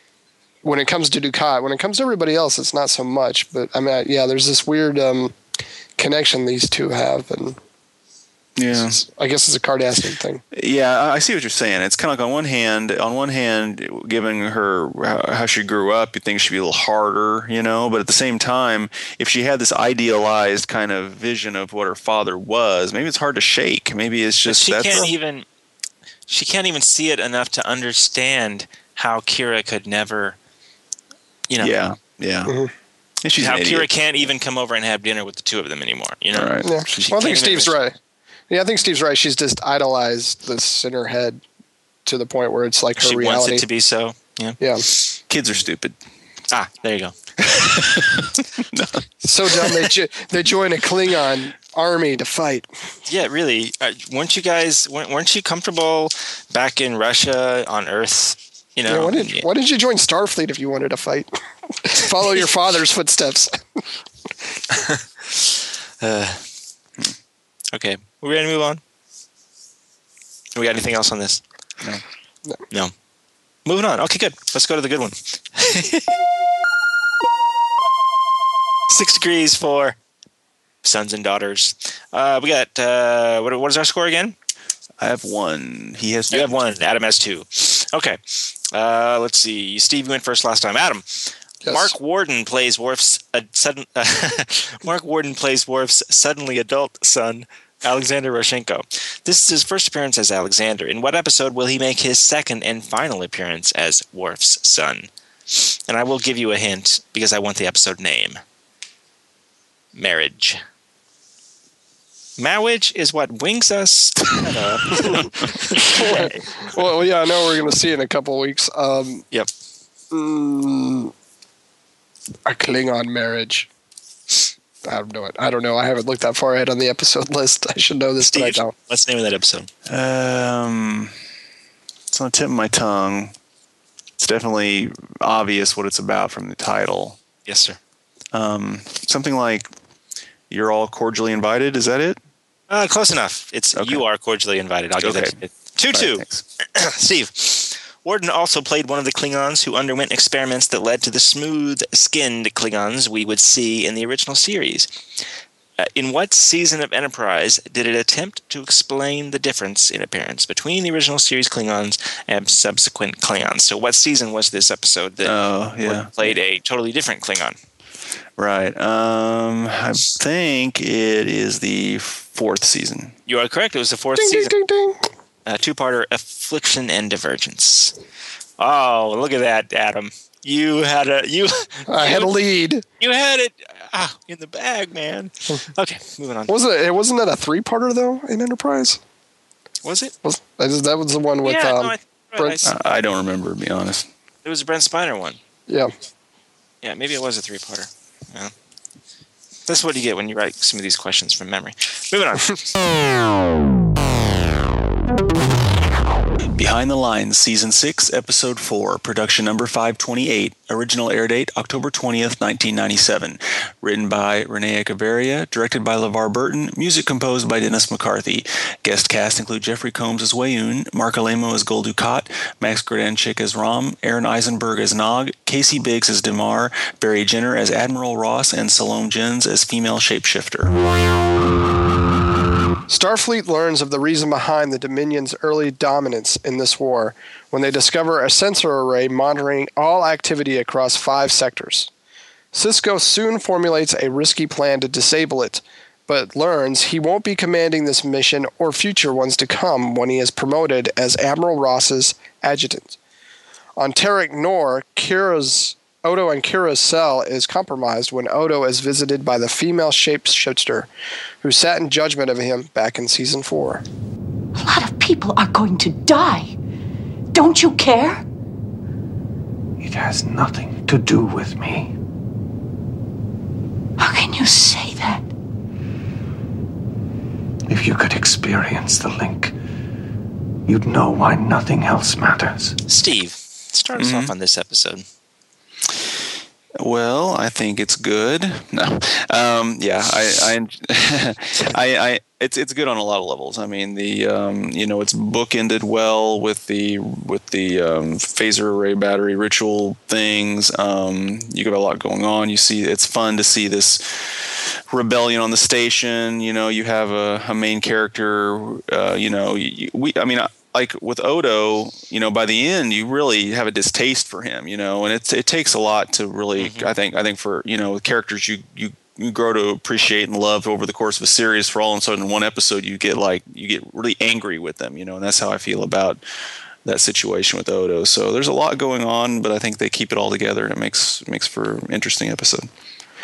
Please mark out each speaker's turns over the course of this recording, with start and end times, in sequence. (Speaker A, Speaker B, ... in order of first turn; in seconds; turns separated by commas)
Speaker A: 0.6-5.3, Speaker A: 6.0-7.6, Speaker B: 8.6-9.0, Speaker A: 8.7-10.4, Speaker B: 10.5-25.1, Speaker C: 24.4-25.4, Speaker C: 26.3-30.4, Speaker B: 31.6-32.5, Speaker A: 32.5-32.7, Speaker B: 33.2-33.9, Speaker C: 33.4-37.8, Speaker B: 36.3-36.8, Speaker A: 36.6-37.9, Speaker A: 38.5-41.4, Speaker A: 42.0-43.6, Speaker C: 43.0-45.1, Speaker A: 44.6-44.8, Speaker B: 45.3-46.0, Speaker C: 46.5-48.0, Speaker B: 47.4-49.9, Speaker A: 49.2-52.7, Speaker C: 53.1-59.5, Speaker A: 58.9-61.3, Speaker A: 61.8-63.8, Speaker C: 66.0-66.4, Speaker C: 67.7-68.8, Speaker C: 70.5-71.4, Speaker C: 73.6-76.1, Speaker C: 78.9-80.0, Speaker C: 80.8-84.3, Speaker B: 85.0-86.6, Speaker C: 86.3-108.4, Speaker A: 91.6-91.9, Speaker C: 109.9-110.6, Speaker C: 112.4-116.5, Speaker A: 114.9-119.2, Speaker A: 120.1-121.1, Speaker A: 122.5-123.7, Speaker A: 124.8-128.7, Speaker C: 128.2-129.7, Speaker B: 129.9-131.1, Speaker B: 132.1-133.3, Speaker B: 134.2-137.2, Speaker C: 137.4-137.8, Speaker B: 138.3-139.7, Speaker B: 140.5-142.2, Speaker C: 142.7-154.9, Speaker B: 143.7-144.0, Speaker B: 145.0-145.3, Speaker B: 145.9-146.4, Speaker C: 155.8-167.6, Speaker B: 165.2-166.3, Speaker B: 168.4-173.1, Speaker C: 173.3-174.5, Speaker A: 174.2-175.0, Speaker C: 175.4-177.9, Speaker C: 178.6-182.3, Speaker A: 181.9-182.8, Speaker C: 183.0-186.5, Speaker A: 186.5-189.0, Speaker C: 189.8-190.1, Speaker A: 190.2-192.6, Speaker C: 191.4-192.8, Speaker B: 192.6-194.1, Speaker C: 194.4-195.4, Speaker C: 196.8-198.5, Speaker C: 199.7-202.6, Speaker B: 206.5-230.7, Speaker A: 232.9-241.9, Speaker A: 242.5-253.0, Speaker A: 253.8-260.9, Speaker A: 261.4-263.8, Speaker D: 264.6-266.5, Speaker D: 267.3-268.2, Speaker E: 269.8-271.9, Speaker D: 274.0-275.3, Speaker E: 277.7-279.5, Speaker E: 280.7-282.8, Speaker C: 282.9-285.0, Speaker B: 284.0-284.3, Speaker B: 286.8-326.2, Speaker C: 316.6-316.9, Speaker B: 326.8-332.7